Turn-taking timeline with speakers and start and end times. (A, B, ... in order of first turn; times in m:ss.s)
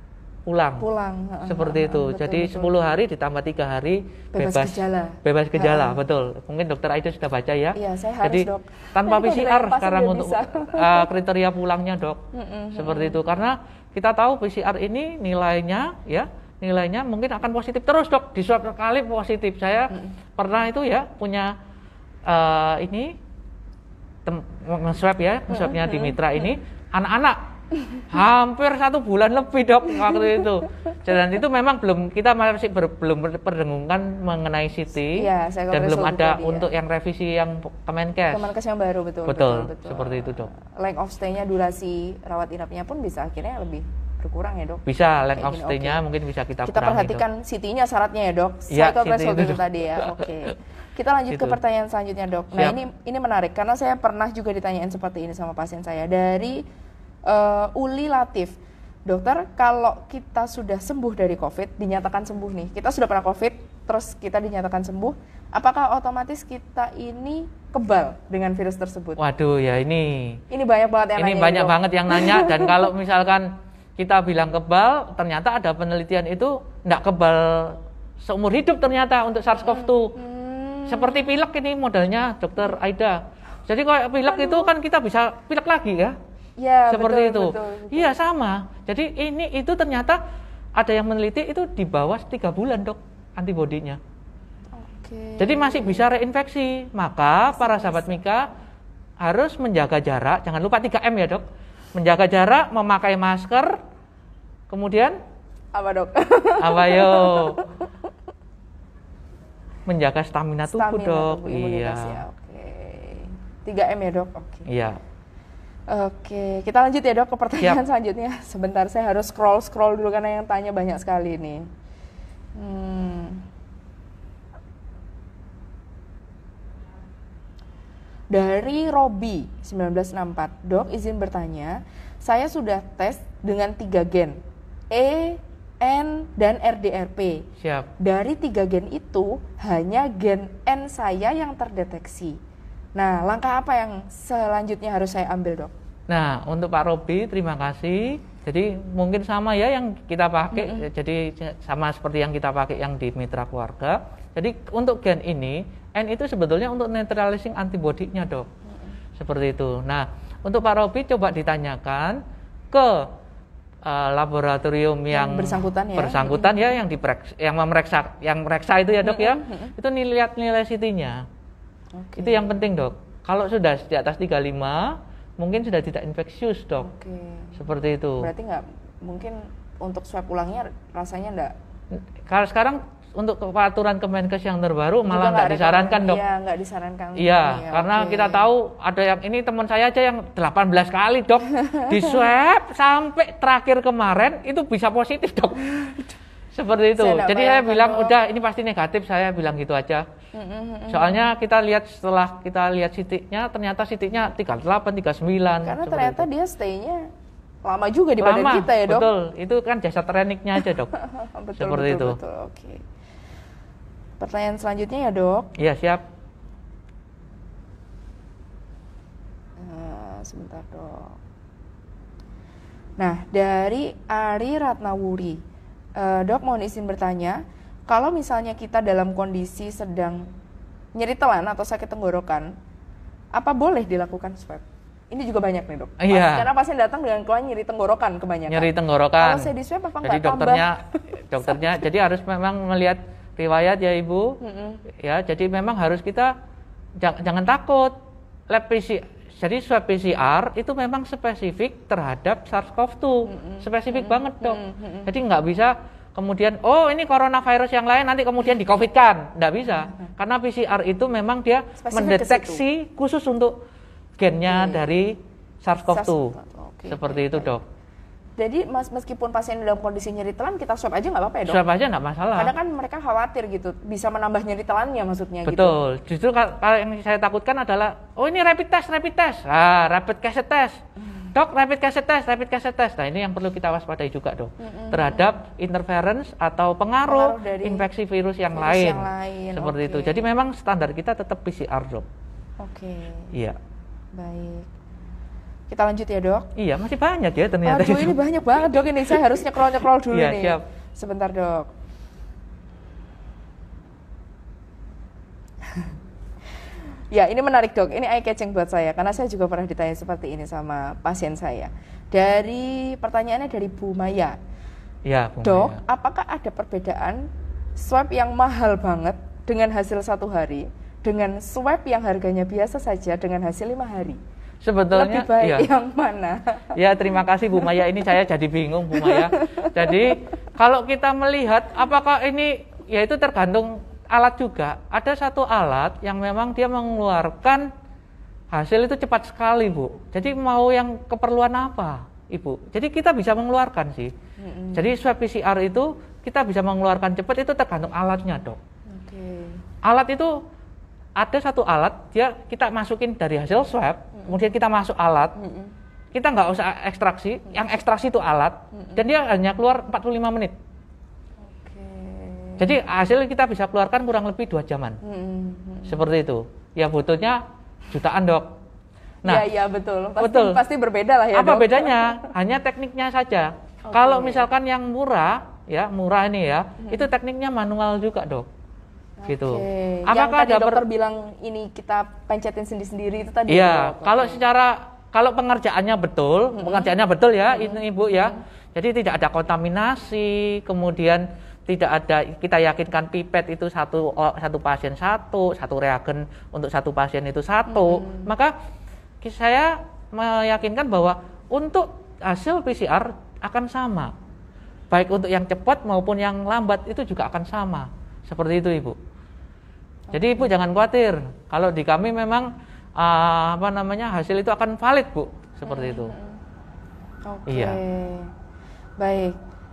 0:00.5-0:00.8 A
0:00.8-0:02.9 B
0:01.4-0:12.2 A
0:04.3-0:06.0 B
0:07.7-0:11.1 B
0:12.3-0:13.2 B
0:12.7-0:21.5 A
0:22.2-0:23.1 A
0:24.2-0:27.4 A
0:25.5-0:26.2 B
0:28.1-0:38.5 A
0:30.1-0:30.5 B
0:35.1-0:36.7 B
0:38.3-0:44.8 B
0:39.2-0:40.5 A
0:44.8-0:47.2 A
0:45.3-0:46.0 B
0:46.6-0:56.6 B
0:48.7-0:50.5 A
0:51.3-0:51.6 A
0:57.3-1:09.2 B
1:09.2-1:10.4 A
1:10.5-1:12.9 B
1:11.2-1:20.1 A
1:19.6-1:21.4 B
1:20.9-1:26.2 A
1:24.3-1:24.7 B
1:26.6-1:28.2 B
1:26.9-1:30.2 A
1:30.8-1:34.0 A
1:34.7-1:36.1 B
1:35.4-1:38.5 A
1:37.5-1:38.2 B
1:39.2-1:43.8 A
1:44.7-1:45.2 A
1:45.7-1:47.9 B
1:46.6-1:47.6 A
1:49.9-1:52.2 A
1:50.6-1:54.6 B
1:54.7-1:55.0 A
1:55.9-2:01.7 B
2:02.5-2:03.4 B
2:08.3-2:14.4 B
2:14.9-2:17.4 B
2:17.6-2:17.9 A
2:18.0-2:22.4 B
2:23.0-2:25.7 B
2:26.1-2:38.5 A
2:30.5-2:30.9 B
2:39.2-2:42.2 A
2:42.7-2:43.1 A
2:43.8-2:51.2 A
2:45.1-2:46.8 B
2:49.0-2:49.7 B
2:51.9-2:52.6 B
2:52.2-2:56.9 A
2:56.8-2:57.6 B
2:57.6-2:58.3 A
2:58.2-3:01.5 B
3:01.9-3:06.2 A
3:05.0-3:08.5 B
3:07.2-3:15.6 A
3:11.5-3:12.2 B
3:15.8-3:16.1 B
3:16.5-3:20.0 A
3:17.0-3:18.1 B
3:20.3-3:21.3 B
3:20.9-3:26.3 A
3:25.6-3:27.1 B
3:27.6-3:29.1 B
3:28.2-3:30.9 A
3:30.6-3:32.8 B
3:31.6-3:32.2 A
3:34.2-3:35.5 B
3:35.6-3:36.0 A
3:39.6-3:41.2 B
3:43.0-3:45.4 B
3:46.0-3:50.3 B
3:50.9-3:52.5 B
3:53.3-4:01.8 B
3:56.0-3:56.5 A
3:58.5-3:59.5 A
4:00.0-4:04.4 A
4:04.4-4:04.8 B
4:04.9-4:06.3 A
4:07.0-4:07.9 A
4:08.5-4:23.6 A
4:13.3-4:15.1 B
4:21.8-4:22.6 B
4:24.2-4:26.3 A
4:24.4-4:24.9 B
4:25.9-4:27.5 B
4:26.9-4:27.6 A
4:28.4-4:31.6 B
4:31.5-4:32.5 A
4:32.4-4:35.8 B
4:35.4-4:40.8 A
4:41.3-4:52.0 A
4:44.6-4:45.3 B
4:47.0-4:47.8 B
4:48.5-4:50.3 B
4:52.6-4:53.3 B
4:54.1-4:54.7 B
4:55.7-4:56.5 B
4:56.6-4:58.1 A
4:57.6-5:01.7 B
5:00.1-5:00.6 A
5:07.1-5:14.4 B
5:15.0-5:15.8 A
5:15.4-5:24.2 B
5:24.6-5:25.7 A
5:24.9-5:26.7 B
5:26.7-5:37.7 A
5:28.9-5:30.0 B
5:38.5-5:44.1 A
5:44.4-5:44.9 B
5:44.7-5:48.6 A
5:48.9-5:49.6 B
5:49.8-5:50.3 A
5:51.2-5:55.3 A
5:55.4-5:55.7 B
5:56.1-6:00.5 A
6:01.5-6:02.7 B
6:02.6-6:05.0 A
6:05.0-6:06.0 B
6:05.9-6:08.5 A
6:09.2-6:12.3 B
6:10.2-6:10.6 A
6:11.3-6:18.5 A
6:13.8-6:14.5 B
6:16.8-6:17.1 B
6:19.2-6:24.4 B
6:19.3-6:20.8 A
6:23.5-6:38.5 A
6:26.5-6:26.9 B
6:27.5-6:28.4 B
6:37.7-6:38.3 B
6:39.2-6:44.1 A
6:44.9-6:49.0 A
6:50.1-6:50.5 B
6:50.1-6:56.1 A
6:55.6-6:56.4 B
6:57.2-6:58.3 B
6:57.5-6:57.8 A
6:59.0-6:59.4 B